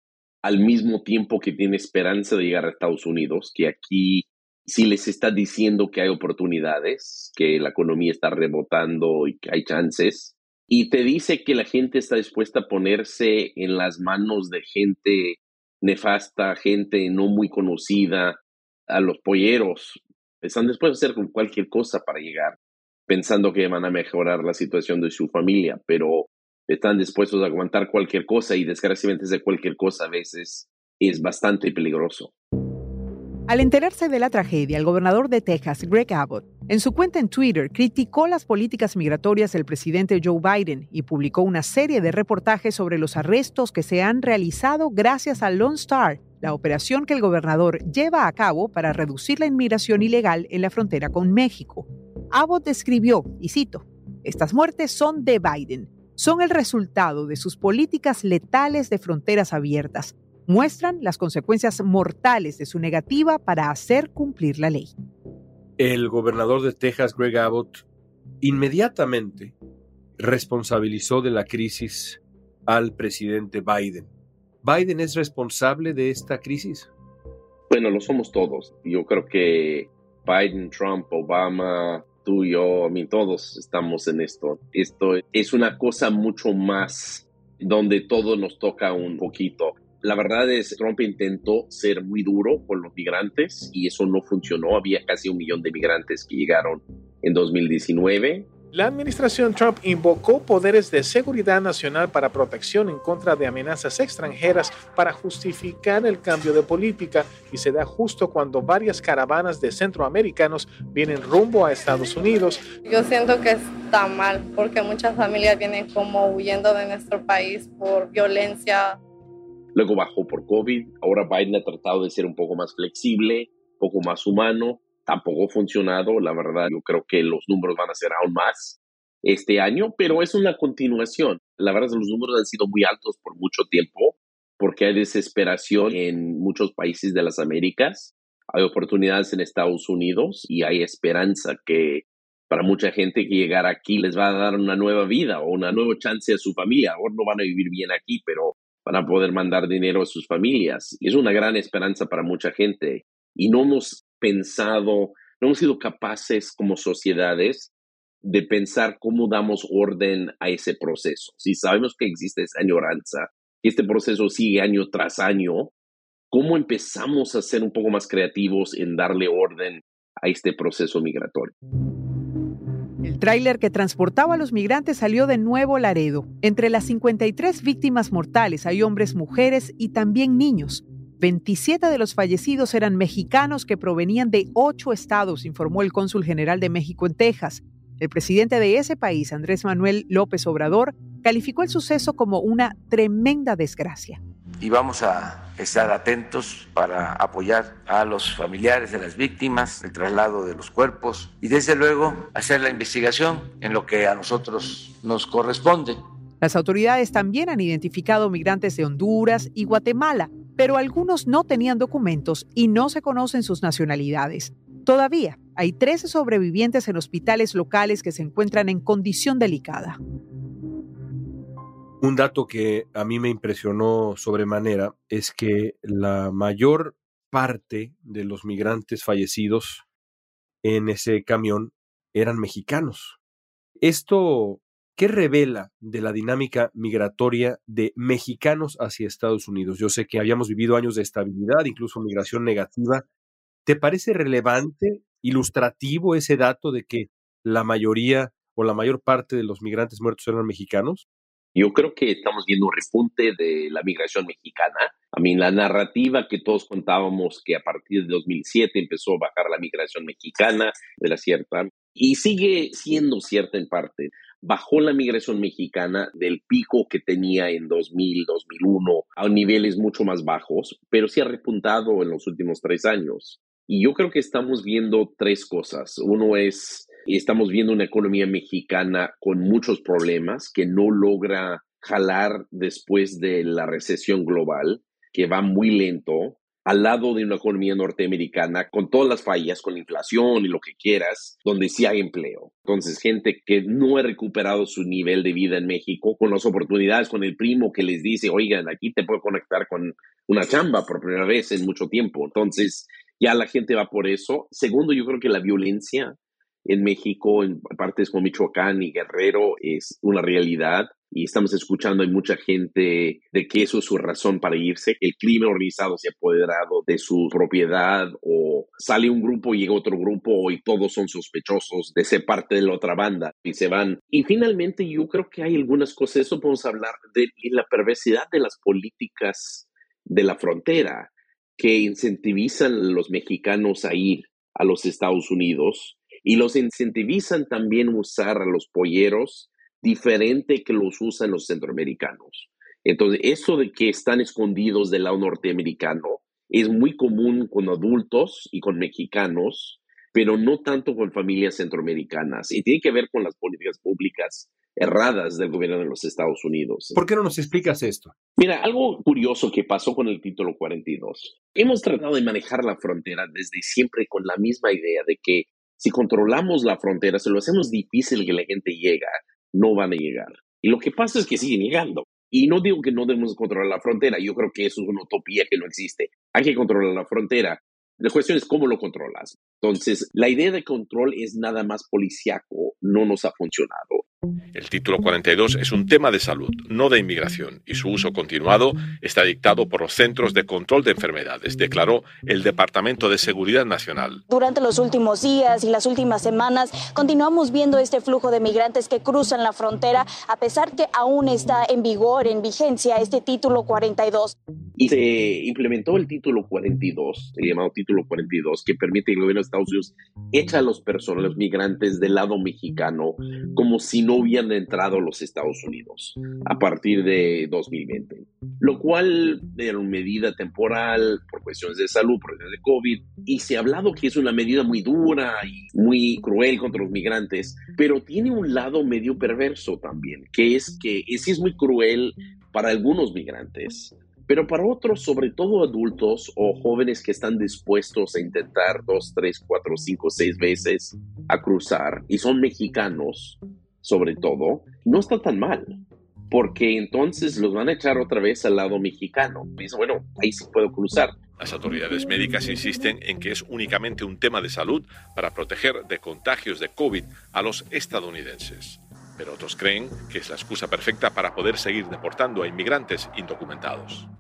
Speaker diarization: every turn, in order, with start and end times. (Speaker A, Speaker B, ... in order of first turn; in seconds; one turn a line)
Speaker A: 0.4-22.6
Speaker A: 23.1-32.3
Speaker B: 33.5-64.9
Speaker C: 65.8-67.8
Speaker C: 68.4-69.5
Speaker C: 70.2-74.1
Speaker C: 74.6-76.9
Speaker A: 77.7-98.5
Speaker D: 98.7-112.7
Speaker E: 112.8-119.0
Speaker A: 119.8-157.7
Speaker A: 158.2-165.7
Speaker A: 166.3-171.5
Speaker B: 173.0-194.2
Speaker F: 194.6-206.0
Speaker B: 206.4-220.0
Speaker C: 222.0-229.8
Speaker C: 230.6-233.2
Speaker C: 233.8-243.0
Speaker C: 243.7-251.0
Speaker A: 251.6-357.0
Speaker C: 356.9-358.1
Speaker A: 358.4-384.0
Speaker G: 384.6-394.2
Speaker H: 394.3-404.4
Speaker A: 404.8-445.8
Speaker A: 446.3-451.2
Speaker G: 451.4-464.1